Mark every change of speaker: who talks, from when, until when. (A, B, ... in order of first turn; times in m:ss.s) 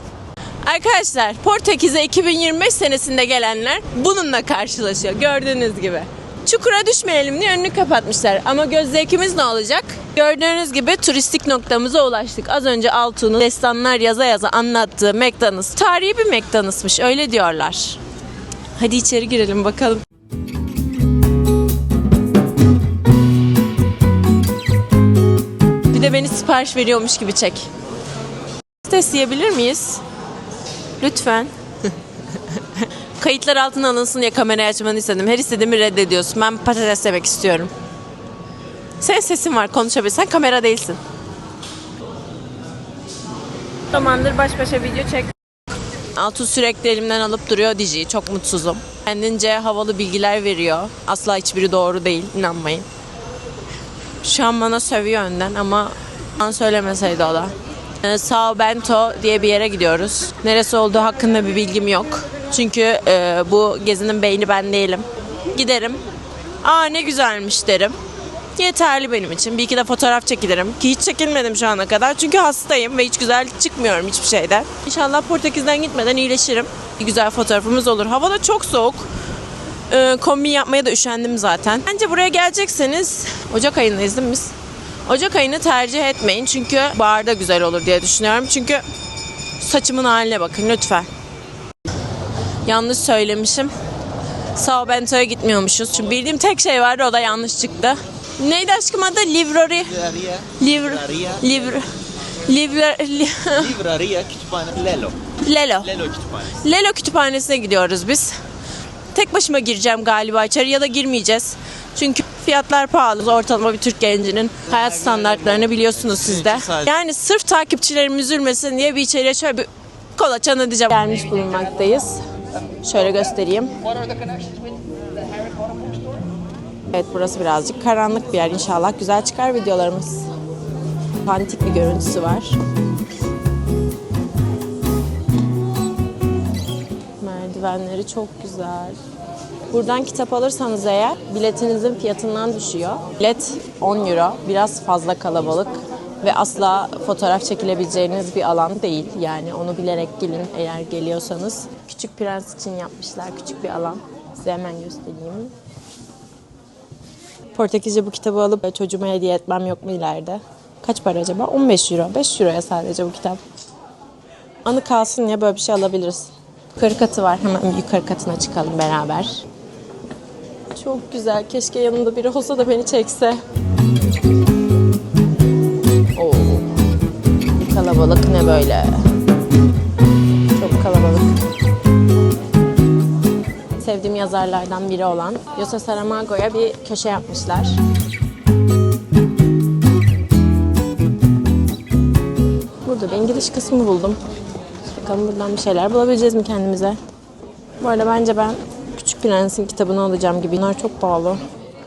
0:00.6-0:18.0 A
0:18.8-0:20.0 A
0:25.9-0:27.7 A
0:28.8-0:30.0 A
0:31.0-0:31.9 A
0:32.5-0:37.7 A
0:39.0-0:41.0 A
0:43.9-0:45.3 A
0:46.2-0:52.8 A
0:54.2-1:06.0 A
1:06.6-1:07.9 A
1:08.6-1:19.1 A
1:19.9-1:24.5 A
1:25.1-1:28.8 A
1:29.6-1:31.1 A
1:32.7-1:33.7 A
1:34.6-1:39.9 A
1:39.8-1:41.8 B
1:40.6-1:43.7 A
1:43.5-1:45.2 B
1:45.4-1:45.9 A
1:45.8-1:46.6 B
1:46.5-1:48.4 A
1:49.1-2:02.2 A
1:54.7-1:56.9 B
2:02.8-2:03.7 A
2:06.9-2:10.3 A
2:11.2-2:12.6 A
2:17.2-2:19.0 A
2:19.7-2:35.5 A
2:37.5-2:43.4 A
2:44.6-2:49.4 A
2:50.7-2:53.4 A
2:56.2-2:56.7 A
2:57.6-2:59.0 A
3:00.6-3:01.3 A
3:03.8-3:07.8 A
3:12.8-3:14.2 A
3:14.9-3:17.0 A
3:17.8-3:21.4 A